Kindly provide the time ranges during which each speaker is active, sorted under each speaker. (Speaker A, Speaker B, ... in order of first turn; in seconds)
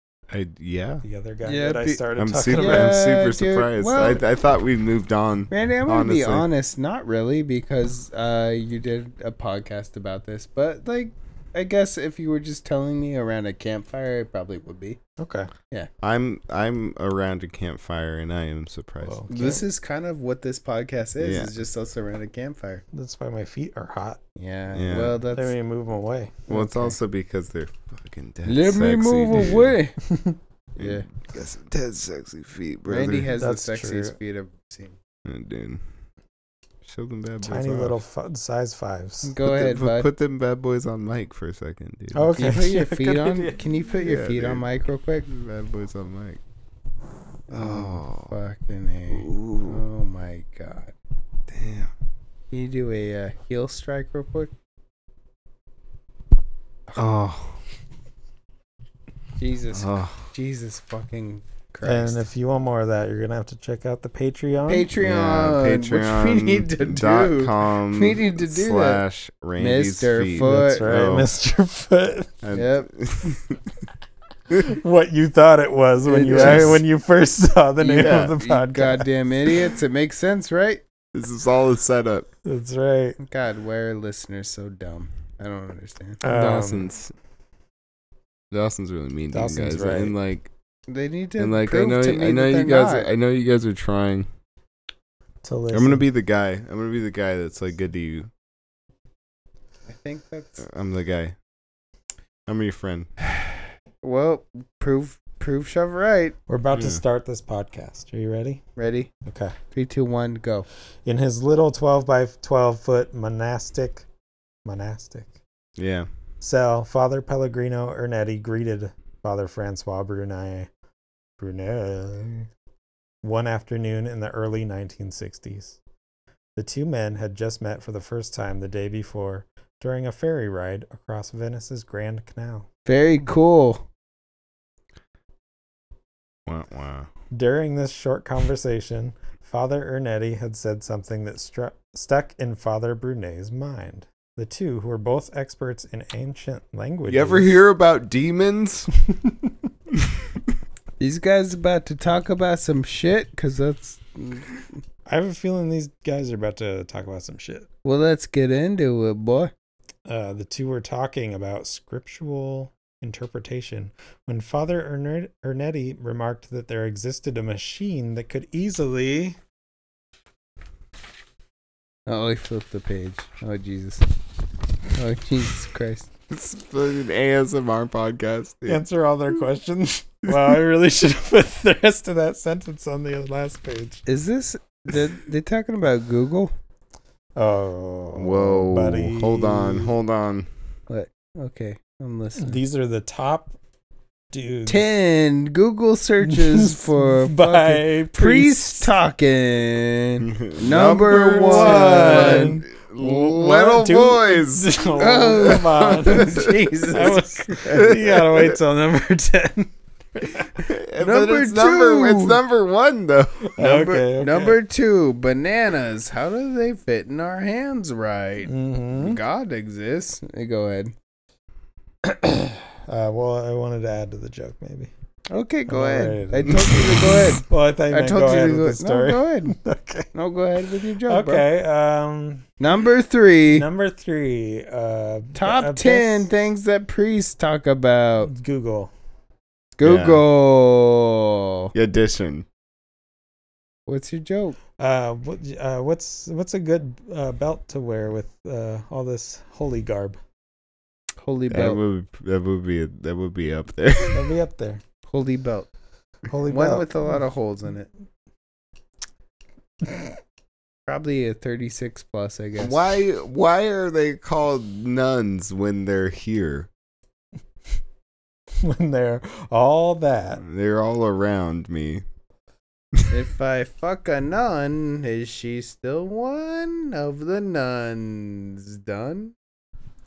Speaker A: 0.3-1.0, 2.2-6.5, 16.0-19.2, 21.2-21.5, 24.7-25.2, 26.5-29.8, 30.8-33.3, 35.2-35.8, 36.8-38.0, 39.4-42.4, 44.0-44.7, 45.2-46.4, 47.5-48.3, 49.1-49.8, 51.5-51.9, 56.9-57.6, 59.7-60.3, 65.0-71.3, 72.4-73.6, 76.3-76.8, 78.0-78.3, 81.1-82.3, 86.2-87.1, 88.5-90.5, 91.4-94.3, 95.7-98.3, 100.6-101.3, 102.5-103.1, 106.7-107.0, 115.8-116.1, 136.4-137.1, 147.1-148.9, 176.3-178.8, 188.2-190.5, 200.2-208.6, 210.5-213.8, 239.8-240.2, 241.7-242.5, 251.5-254.3, 262.6-266.7, 270.4-272.0
Speaker B: 1.0-3.0, 15.2-15.5, 19.0-19.6, 22.9-24.2, 25.3-26.9, 30.0-30.4, 33.4-34.1, 37.4-39.3, 42.1-43.6, 61.8-64.9, 70.4-72.3, 74.5-79.1, 82.5-83.2, 86.2-86.9, 89.3-90.1, 95.4-96.0, 106.5-108.6, 109.2-109.5, 111.0-114.0, 114.6-115.3, 116.4-120.7, 121.4-122.5, 123.2-125.8, 126.5-132.7, 137.3-147.6, 155.1-157.7, 160.1-169.4, 178.7-184.0, 187.3-189.9, 192.4-193.5, 194.3-194.8, 196.2-198.9, 201.2-210.5, 213.4-214.6, 218.4-219.2, 222.0-224.9, 225.7-230.1, 231.0-232.5, 233.5-236.3, 238.2-238.9, 244.8-250.2, 254.1-254.8, 256.3-256.9, 259.8-260.1, 268.6-270.4
Speaker C: 1.4-4.2, 5.5-15.0, 19.3-22.8, 24.4-25.5, 28.4-30.0, 30.8-31.0, 32.9-35.0, 39.2-40.1, 42.4-45.3, 47.5-50.9, 52.5-54.5, 59.4-62.2, 64.7-69.0, 69.6-70.8, 72.5-72.9, 76.1-76.8, 77.8-80.8, 83.2-86.2, 90.9-93.1, 99.9-100.6, 104.0-106.3, 108.8-109.1, 109.7-110.7, 132.9-133.8, 151.0-154.7, 157.8-159.5, 172.1-174.1, 174.9-176.1, 184.1-186.5, 190.9-192.6, 194.7-202.6, 205.0-207.9, 211.0-212.4, 213.6-220.9, 225.3-229.6, 230.1-231.4, 232.6-233.7, 235.3-238.3, 239.8-241.7, 243.9-244.6, 251.2-251.8, 255.1-255.7, 256.5-257.9, 260.9-262.8, 273.1-279.3